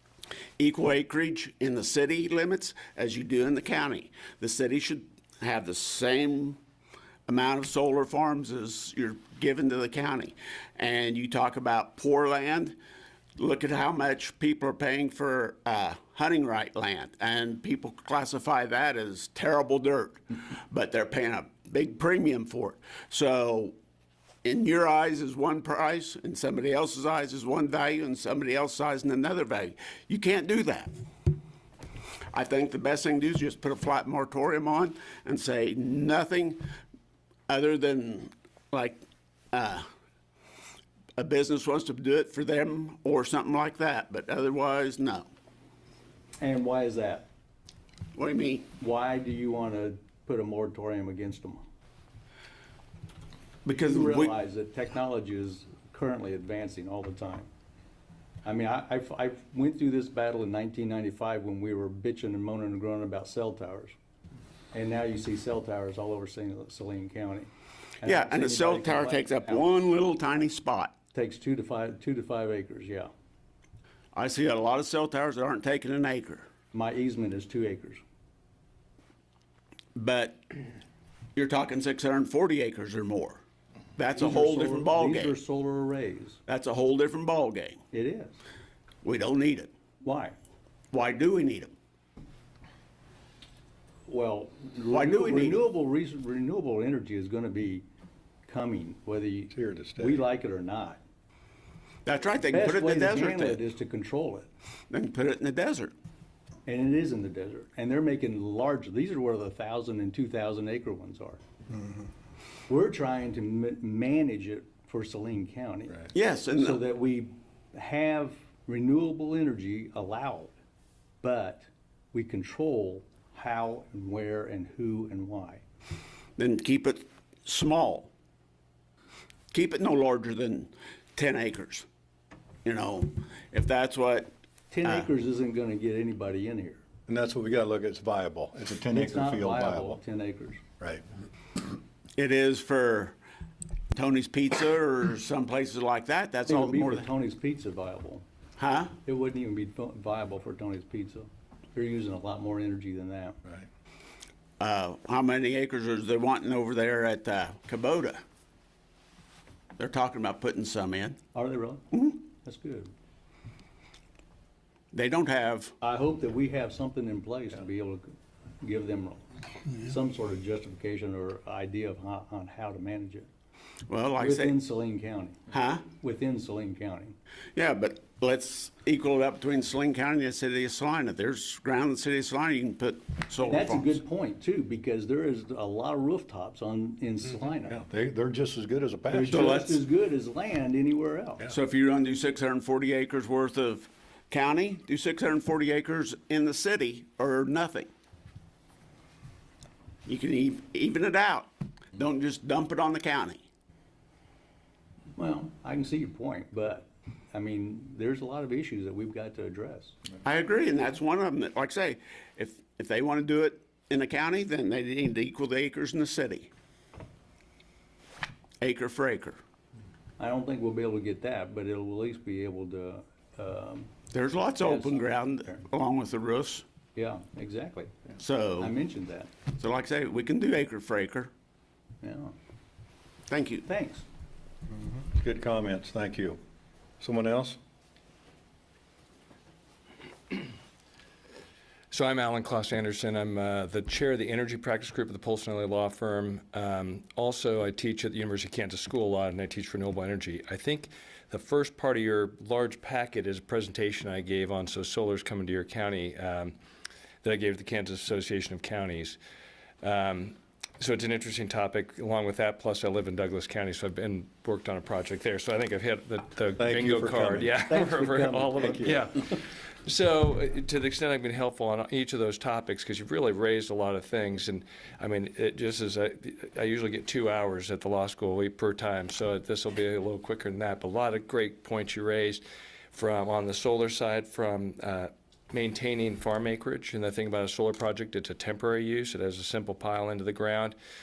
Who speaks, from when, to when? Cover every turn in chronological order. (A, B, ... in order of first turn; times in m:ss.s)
0:00.6-0:06.6 A
0:07.3-0:12.8 A
0:13.4-0:23.8 A
0:24.4-0:31.0 A
0:32.3-0:36.7 A
0:37.5-0:39.9 A
0:41.2-0:45.3 A
0:46.4-0:47.3 B
0:48.2-0:48.7 A
0:48.8-0:51.6 B
0:53.6-0:54.4 A
0:53.8-0:57.5 B
0:58.4-1:03.9 B
1:04.7-1:07.5 B
1:08.0-1:09.6 B
1:08.0-1:10.9 A
1:11.1-1:13.1 B
1:14.1-1:16.5 A
1:16.7-1:18.0 B
1:20.0-1:20.5 A
1:21.4-1:23.4 A
1:24.0-1:25.4 A
1:24.2-1:26.4 B
1:26.5-1:27.8 A
1:27.9-1:28.4 B
1:29.0-1:29.7 A
1:30.0-1:30.4 B
1:30.9-1:31.7 A
1:34.1-1:37.8 B
1:34.9-1:35.6 A
1:38.5-1:41.0 B
1:39.5-1:40.2 C
1:42.1-1:43.6 A
1:42.5-1:44.5 B
1:44.9-1:45.9 A
1:46.7-1:51.4 B
1:52.7-2:00.5 B
1:56.1-1:56.8 A
2:01.2-2:05.6 B
2:06.4-2:08.1 A
2:09.5-2:11.9 A
2:12.6-2:14.3 A
2:14.7-2:16.8 B
2:17.1-2:20.0 C
2:18.9-2:20.6 B
2:22.2-2:23.2 A
2:23.9-2:27.1 A
2:26.5-2:28.2 B
2:28.6-2:29.0 A
2:29.0-2:33.4 B
2:34.6-2:38.2 A
2:39.8-2:41.2 A
2:41.3-2:42.9 B
2:41.9-2:42.2 A
2:44.9-2:45.8 A
2:45.8-2:53.3 B
2:53.9-2:54.6 A
2:54.2-2:57.2 B
2:55.5-2:55.9 A
2:57.6-3:04.0 A
3:03.4-3:07.8 B
3:07.6-3:09.5 C
3:09.1-3:11.4 B
3:09.3-3:09.8 A
3:11.5-3:17.9 A
3:20.1-3:23.4 A
3:25.2-3:30.0 B
3:30.2-3:36.5 A
3:38.6-3:39.4 A
3:40.2-3:43.9 B
3:44.1-3:46.6 A
3:44.6-3:45.6 B
3:47.0-3:49.3 B
3:48.2-3:48.7 A
3:49.5-3:51.3 A
3:52.0-3:52.3 B
3:53.3-3:53.7 A
3:53.7-3:54.0 B
3:54.7-3:56.4 C
3:57.0-3:57.6 C
4:01.9-4:16.5 D
4:17.2-4:19.2 D
4:19.8-4:42.4 D
4:26.6-4:27.6 C
4:27.7-4:29.0 B
4:28.6-4:29.1 C
4:42.9-4:50.8 D